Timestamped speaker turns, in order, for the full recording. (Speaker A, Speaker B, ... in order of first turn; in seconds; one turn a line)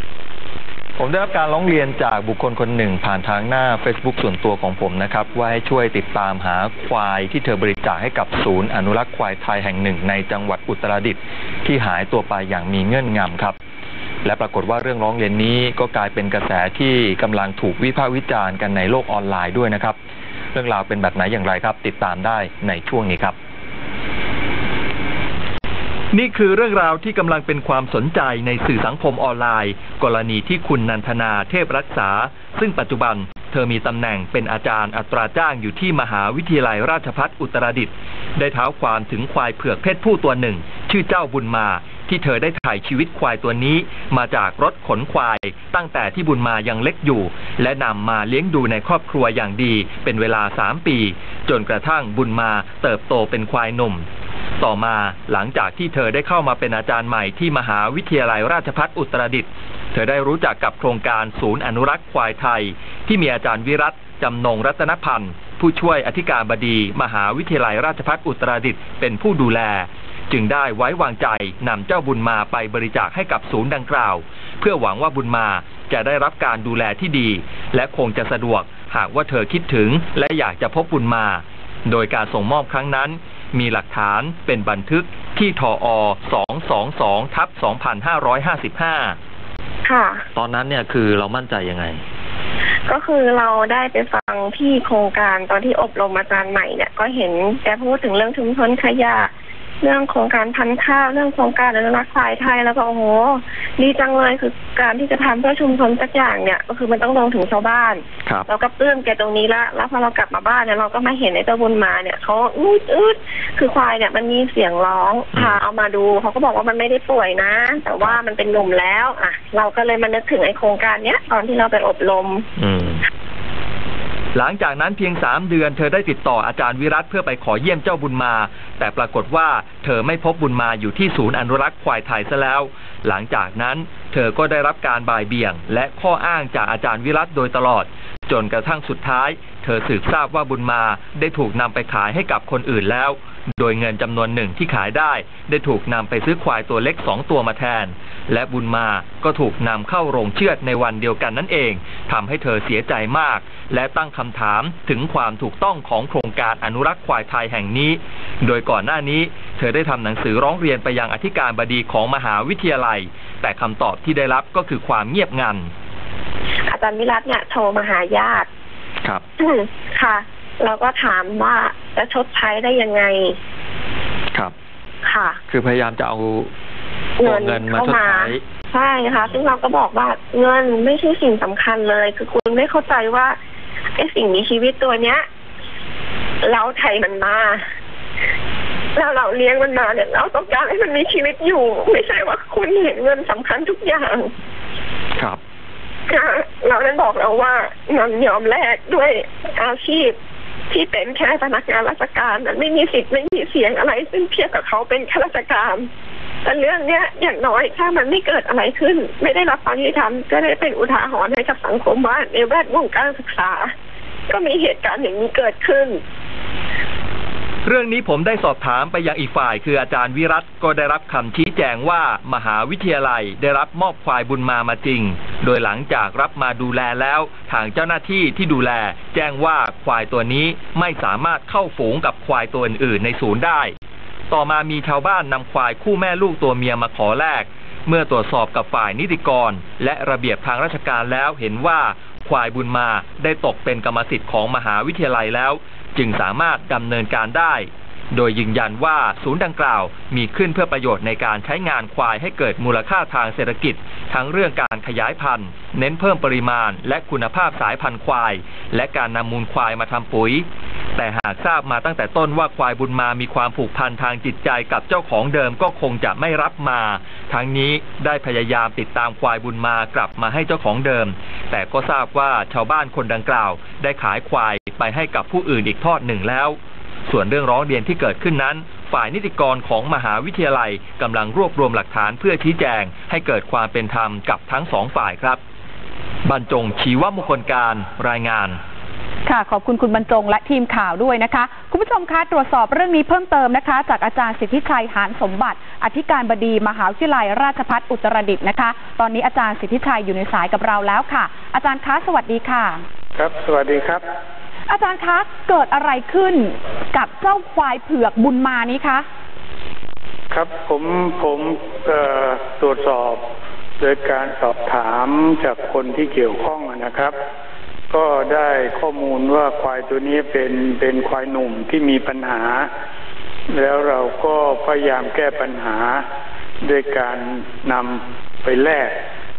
Speaker A: 1.0-13.6
Speaker A: 14.2-20.0
Speaker A: 20.5-23.4
Speaker A: 26.1-54.1
Speaker A: 54.6-89.2
Speaker B: 89.8-90.2
Speaker A: 90.4-92.0
Speaker B: 92.9-99.3
Speaker B: 99.8-122.5
Speaker A: 115.3-115.6
Speaker A: 122.6-123.0
Speaker A: 124.3-165.7
Speaker B: 166.7-168.5
Speaker B: 169.4-173.4
Speaker B: 175.1-175.4
Speaker A: 175.5-176.5
Speaker B: 177.2-183.4
Speaker A: 177.2-178.4
Speaker B: 184.0-185.3
Speaker B: 186.4-187.6
Speaker B: 189.0-194.3
Speaker B: 196.1-200.2
Speaker B: 200.7-205.9
Speaker B: 206.4-213.7
Speaker B: 214.3-216.0
Speaker A: 217.7-233.7
Speaker A: 234.3-276.6
Speaker A: 277.1-285.4
Speaker A: 286.2-288.6
Speaker C: 289.2-302.8
Speaker D: 303.2-304.0
Speaker C: 304.7-309.1
Speaker D: 310.3-313.3
Speaker D: 313.8-317.2
Speaker D: 317.9-322.7
Speaker D: 323.5-326.1
Speaker D: 326.6-329.0